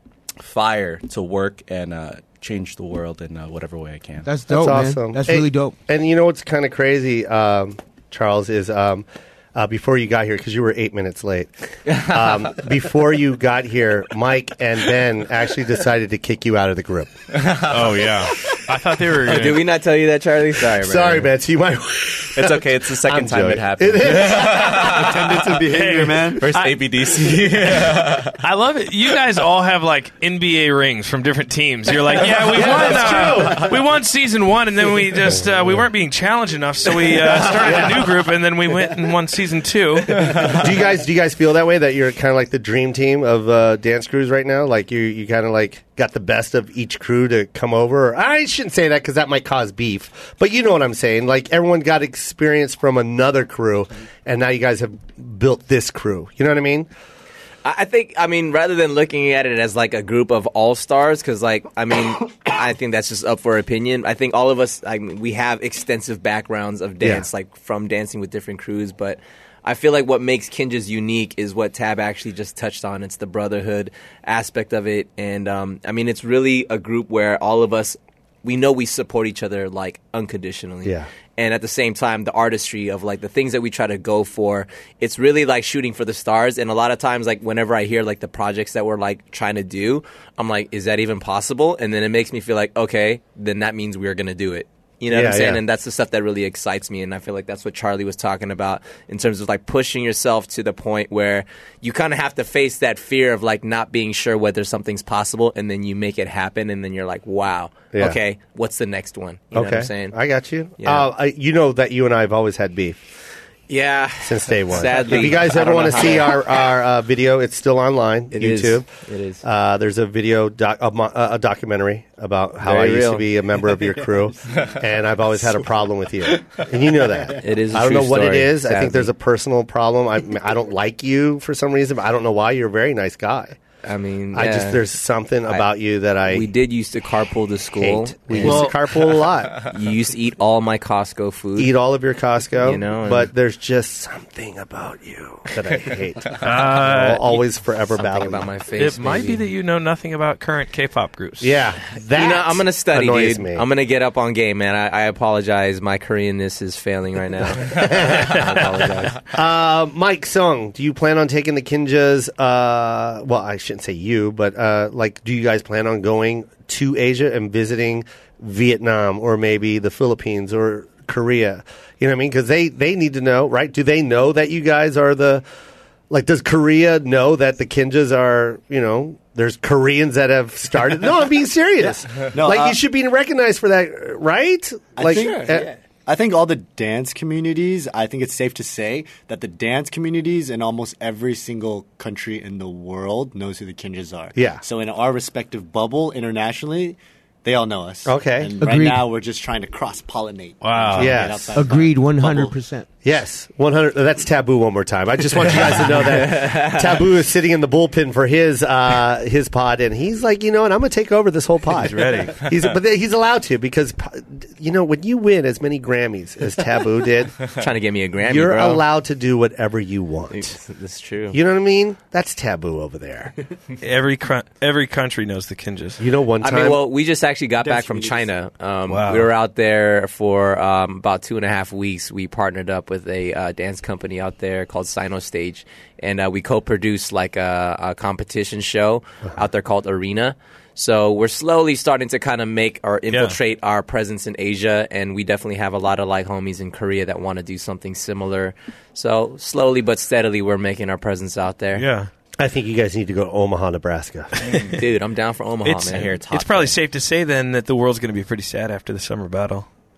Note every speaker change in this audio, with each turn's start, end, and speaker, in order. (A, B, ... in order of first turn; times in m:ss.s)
0:00.4-0:04.3 A
0:04.2-0:05.7 B
0:04.5-0:17.1 C
0:11.9-0:12.2 A
0:17.3-0:18.0 A
0:17.6-0:19.7 D
0:19.2-0:21.3 E
0:20.7-0:25.0 C
0:22.3-0:25.6 A
0:24.8-0:26.4 F
0:25.7-0:26.8 D
0:26.3-0:28.4 A
0:27.9-0:40.6 D
0:32.4-0:33.8 C
0:37.6-0:38.1 C
0:40.4-0:56.9 C
0:57.6-1:50.2 E
1:07.0-1:07.3 C
1:35.1-1:35.6 C
1:47.9-1:48.2 C
1:49.5-1:53.0 C
1:50.8-1:51.1 E
1:53.7-1:56.4 E
1:54.2-1:58.9 C
1:58.3-1:59.4 E
1:59.4-2:13.6 C
2:02.6-2:03.3 E
2:07.4-2:09.1 E
2:13.8-2:14.8 E
2:14.3-2:16.5 C
2:16.3-2:18.7 E
2:17.8-2:19.6 C
2:18.4-2:18.7 D
2:19.7-2:21.7 E
2:21.6-2:28.5 C
2:22.6-2:23.3 E
2:26.4-2:27.2 D
2:28.0-2:29.4 E
2:28.8-2:31.5 D
2:31.4-2:33.6 C
2:32.2-2:39.2 E
2:37.6-2:38.5 C
2:39.3-2:55.4 C
2:56.1-3:05.7 C
3:02.2-3:02.8 F
3:05.0-3:22.6 F
3:05.1-3:05.7 E
3:14.3-3:14.6 C
3:18.0-3:18.5 C
3:18.6-3:19.1 B
3:20.6-3:21.2 D
3:20.9-3:21.6 C
3:21.5-3:22.9 B
3:23.0-3:37.4 C
3:26.1-3:26.8 E
3:31.8-3:32.4 D
3:37.6-3:38.8 E
3:38.2-3:40.6 C
3:40.3-3:41.4 E
3:41.3-3:43.3 C
3:43.8-3:46.0 D
3:46.0-3:46.8 C
3:46.4-4:11.8 E
3:47.6-3:48.3 F
3:48.9-3:49.3 D
4:03.1-4:03.4 D
4:11.7-4:12.1 D
4:12.4-4:14.7 C
4:14.7-4:16.8 E
4:15.6-4:19.7 D